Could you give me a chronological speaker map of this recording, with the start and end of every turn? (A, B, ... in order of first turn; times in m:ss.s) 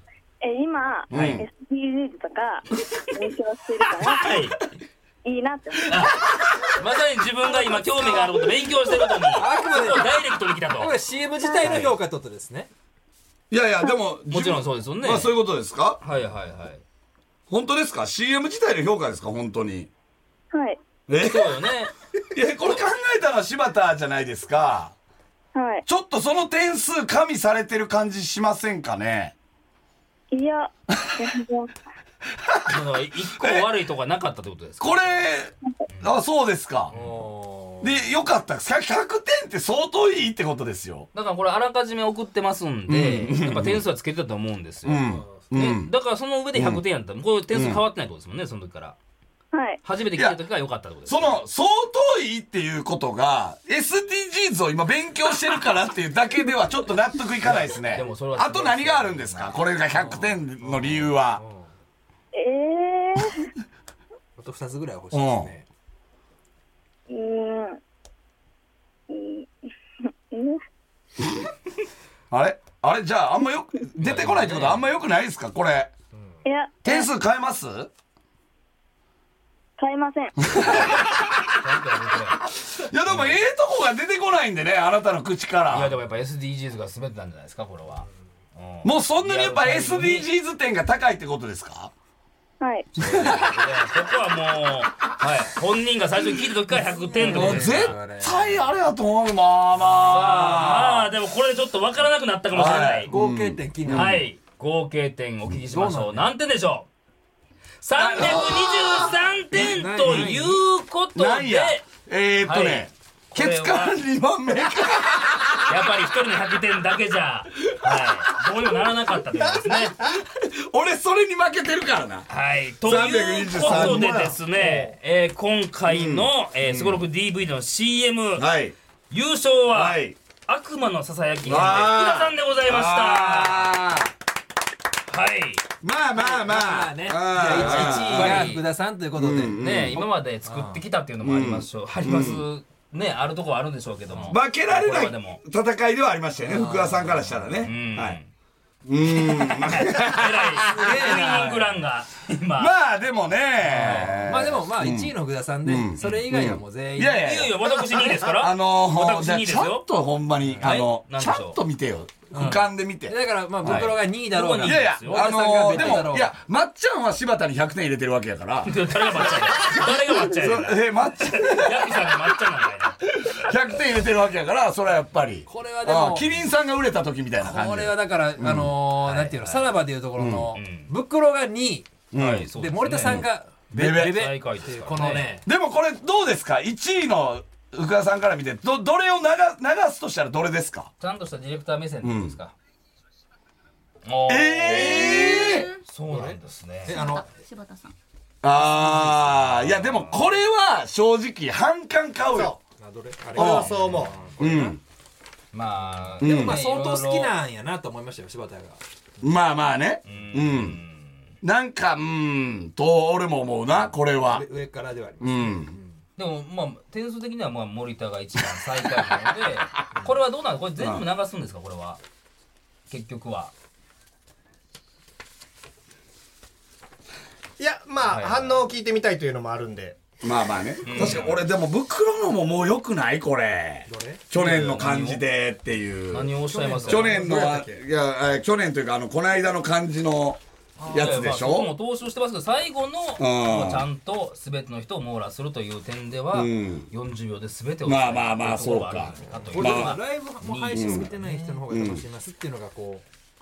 0:00.4-0:04.3 A
0:01.1-0:01.4 B
0:01.1-0:01.4 C
0:04.1-0:04.6 C
0:05.2-0:06.2 A
0:05.9-0:06.2 C
0:06.0-0:06.6 B
0:06.7-0:10.9 C
0:09.3-0:12.7 D
0:11.4-0:11.8 A
0:13.5-0:16.0 B
0:14.3-0:15.4 C
0:16.0-0:16.8 C
0:17.5-0:19.9 B
0:20.5-0:20.8 A
0:21.1-0:21.7 B
0:21.2-0:21.9 C
0:22.3-0:24.9 B
0:25.5-0:25.8 A
0:25.9-0:29.3 B
0:30.3-0:31.7 A
0:32.3-0:33.7 B
0:32.7-0:35.2 C
0:34.8-0:36.9 B
0:36.9-0:38.0 D
0:36.9-0:37.2 C
0:37.8-0:41.1 B
0:41.1-0:49.0 C
0:42.9-0:43.8 B
0:44.8-0:45.9 B
0:45.1-0:45.5 D
0:46.5-0:46.8 B
0:47.5-0:47.8 B
0:49.5-0:49.8 A
0:49.8-0:51.5 C
0:51.0-1:01.4 B
0:57.4-1:00.2 C
0:59.9-1:01.7 D
1:02.3-1:03.5 A
1:04.4-1:05.6 D
1:05.1-1:05.5 B
1:07.1-1:07.8 A
1:09.1-1:09.5 A
1:10.3-1:10.6 A
1:12.3-1:15.9 B
1:14.0-1:14.9 C
1:16.1-1:16.4 D
1:16.4-1:17.1 A
1:16.8-1:17.9 B
1:19.8-1:20.8 A
1:20.5-1:21.6 B
1:20.6-1:21.0 C
1:21.6-1:22.4 C
1:22.5-1:25.9 B
1:23.1-1:23.4 C
1:25.7-1:30.3 C
1:28.8-1:31.9 B
1:32.6-1:33.0 A
1:33.0-1:37.9 C
1:33.2-1:33.7 D
1:36.7-1:38.7 D
1:37.2-1:41.1 B
1:39.8-1:43.1 C
1:42.5-1:44.2 B
1:43.0-1:44.3 D
1:43.9-1:46.9 C
1:45.6-1:46.3 D
1:47.8-1:51.9 C
1:48.0-1:50.4 B
1:49.5-1:50.6 D
1:51.1-1:56.2 B
1:52.4-1:54.0 C
1:55.7-2:00.0 C
1:57.7-1:58.2 B
2:00.0-2:02.3 B
2:02.3-2:08.5 C
2:02.8-2:04.4 B
2:03.7-2:04.4 E
2:04.6-2:04.9 D
2:05.9-2:07.0 B
2:08.4-2:08.7 B
2:09.1-2:13.7 C
2:09.7-2:10.2 B
2:11.4-2:14.1 B
2:15.1-2:15.6 C
2:15.8-2:18.5 B
2:16.1-2:19.7 D
2:17.3-2:18.6 C
2:19.1-2:20.0 B
2:19.5-2:25.4 C
2:20.4-2:20.8 D
2:21.2-2:22.4 B
2:24.1-2:24.4 D
2:24.3-2:28.2 B
2:26.5-2:28.3 C
2:26.5-2:27.2 D
2:28.8-2:31.7 B
2:29.3-2:32.7 C
2:30.8-2:31.6 D
2:32.6-2:44.0 B
2:33.6-2:34.3 C
2:34.2-2:37.5 D
2:36.0-2:36.3 C
2:37.1-2:39.9 C
2:40.4-2:40.8 D
2:40.6-2:41.6 C
2:42.3-2:46.4 D
2:43.6-2:46.1 C
2:44.6-2:52.4 B
2:48.6-2:53.6 C
2:53.1-2:58.7 B
2:55.5-2:56.4 D
2:57.4-3:05.5 D
2:59.0-2:59.8 C
3:00.2-3:00.5 B
3:00.5-3:00.9 C
3:02.1-3:04.3 B
3:02.1-3:03.2 C
3:03.8-3:05.4 C
3:05.4-3:10.9 B
3:11.0-3:12.5 C
3:12.0-3:12.4 B
3:14.0-3:17.1 C
3:14.3-3:15.7 B
3:14.7-3:15.2 E
3:14.9-3:15.8 F
3:16.1-3:17.3 D
3:16.9-3:17.9 F
3:18.4-3:22.6 B
3:18.9-3:20.3 C
3:22.3-3:22.6 E
3:22.8-3:24.8 D
3:23.3-3:24.3 E
3:23.4-3:23.8 B
3:23.5-3:24.3 C
3:24.4-3:24.8 B
3:25.5-3:27.3 C
3:26.2-3:28.8 D
3:26.2-3:26.6 B
3:29.2-3:30.8 B
3:30.0-3:31.2 C
3:31.4-3:34.5 B
3:34.2-3:36.0 D
3:35.2-3:35.7 B
3:36.2-3:42.0 C
3:39.0-3:39.8 B
3:40.8-3:41.0 B
3:42.9-3:43.5 C
3:47.6-3:50.0 E
3:48.0-3:48.7 C
3:50.2-4:01.7 B
3:50.8-3:51.4 C
3:53.9-3:54.2 D
3:54.3-3:55.3 C
3:56.1-3:57.4 C
3:56.4-3:57.8 D
4:00.8-4:01.2 D
4:00.9-4:11.6 C
4:03.2-4:03.9 B
4:06.3-4:06.9 B
4:07.8-4:10.0 B
4:09.3-4:13.0 D
4:10.7-4:12.0 B